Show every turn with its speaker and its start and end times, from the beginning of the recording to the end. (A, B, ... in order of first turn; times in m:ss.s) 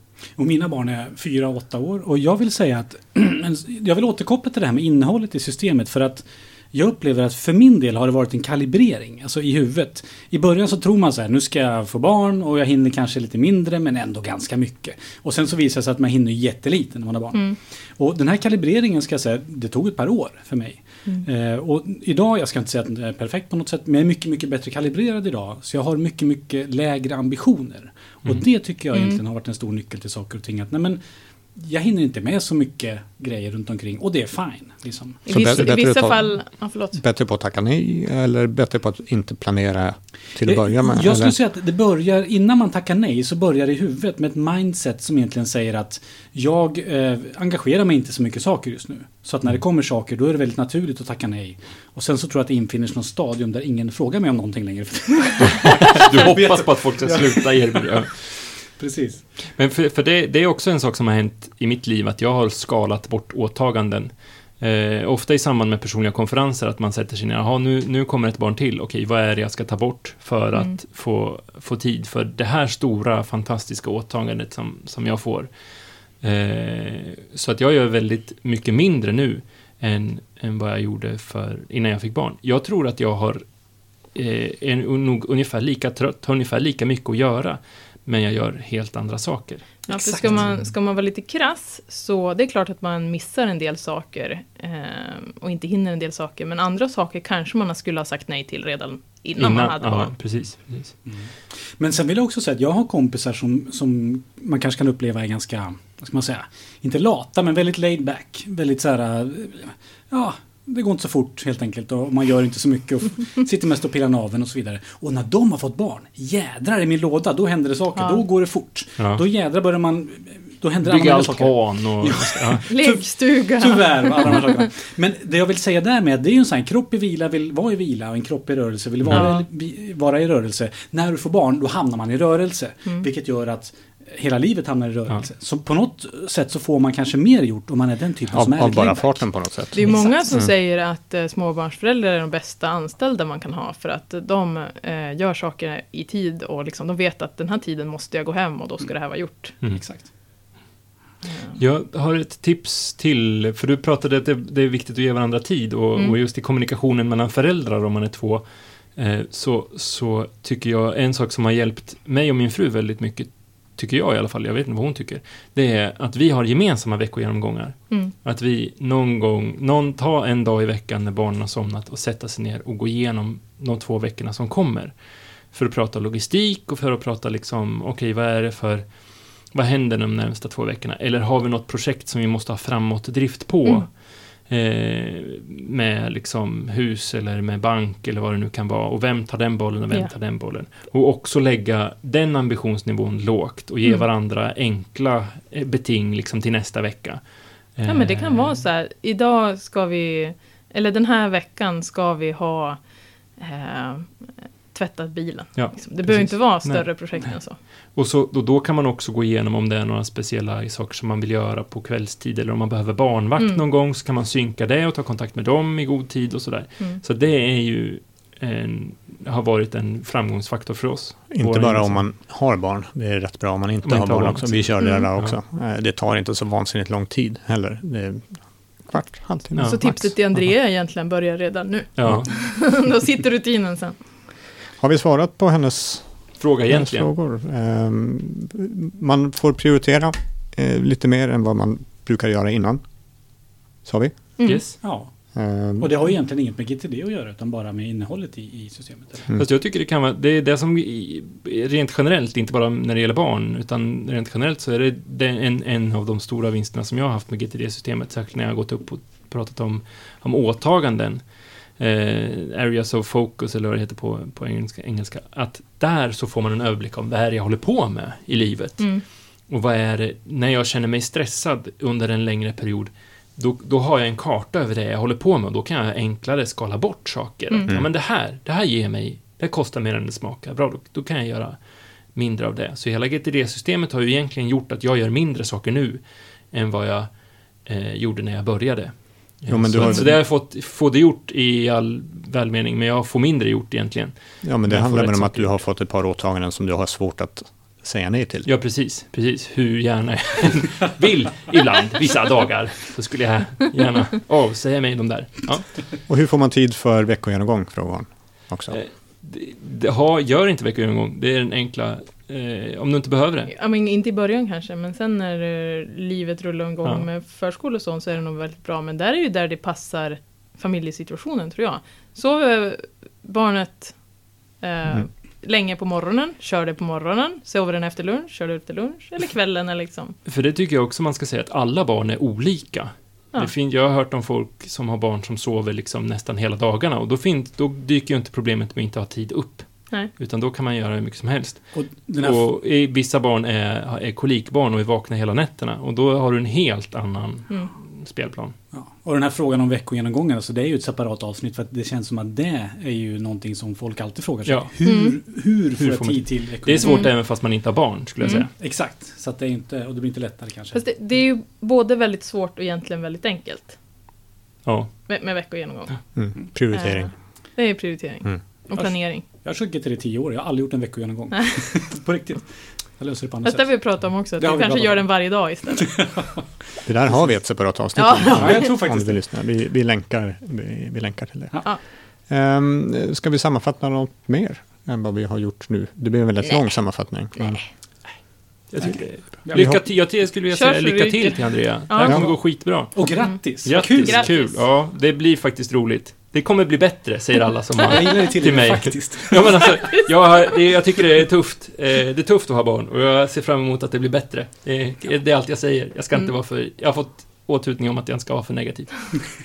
0:00.4-0:31.0 A
0:28.9-0:29.2 B
0:31.5-0:35.2 A
0:35.2-0:37.0 B
0:35.2-0:41.4 C
0:40.4-0:57.9 A
0:55.8-0:58.3 D
0:58.8-0:59.2 A
0:59.4-1:15.5 D
1:16.2-1:23.4 D
1:24.1-1:30.5 D
1:29.9-1:40.1 B
1:39.4-1:40.9 D
1:41.0-2:20.2 A
1:57.9-1:58.2 B
2:00.8-2:02.6 D
2:02.7-2:04.6 B
2:09.1-2:09.4 B
2:18.3-2:20.5 C
2:19.7-2:29.6 B
2:29.7-2:30.1 A
2:31.2-2:31.6 B
2:31.6-2:54.9 D
2:55.5-2:58.9 D
2:59.5-3:17.2 D
3:17.8-3:18.6 D
3:17.8-3:22.8 B
3:23.4-3:27.6 B
3:25.5-3:27.3 D
3:27.9-3:42.0 D
3:41.3-3:50.1 C
3:43.8-3:45.4 D
3:44.8-3:45.0 B
3:49.5-3:49.8 D
3:49.6-3:54.0 B
3:52.0-3:52.3 D
3:54.8-4:02.8 C
3:56.4-3:57.1 D
4:03.8-4:04.3 C
4:04.4-4:04.8 D
4:04.8-4:05.1 A
4:05.3-4:05.9 C
4:05.8-4:09.2 A
4:09.3-4:21.2 D
4:21.8-4:41.6 D
4:42.1-4:47.1 D
4:47.6-4:55.6 D
4:49.5-4:50.2 C
4:54.4-4:58.5 C
4:58.4-5:05.9 D
5:06.0-5:08.8 C
5:08.7-5:13.5 D
5:13.5-5:24.0 B
5:24.6-5:30.2 B
5:30.2-5:48.5 D
5:41.7-5:42.5 A
5:48.7-5:57.0 A
5:54.4-5:54.7 D
5:54.8-5:55.2 B
5:55.8-5:58.5 D
5:56.8-5:57.1 B
5:58.5-6:00.8 A
6:00.7-6:03.8 B
6:04.6-6:04.9 D
6:05.1-6:06.0 B
6:06.1-6:07.1 C
6:06.7-6:09.2 B
6:08.8-6:16.3 A
6:13.4-6:16.0 B
6:16.8-6:21.8 C
6:18.0-6:18.7 B
6:18.3-6:19.2 A
6:22.3-6:27.7 C
6:28.7-6:49.1 D
6:29.5-6:29.8 C
6:30.5-6:32.4 B
6:32.9-6:34.3 A
6:33.3-6:34.6 B
6:37.9-6:39.8 A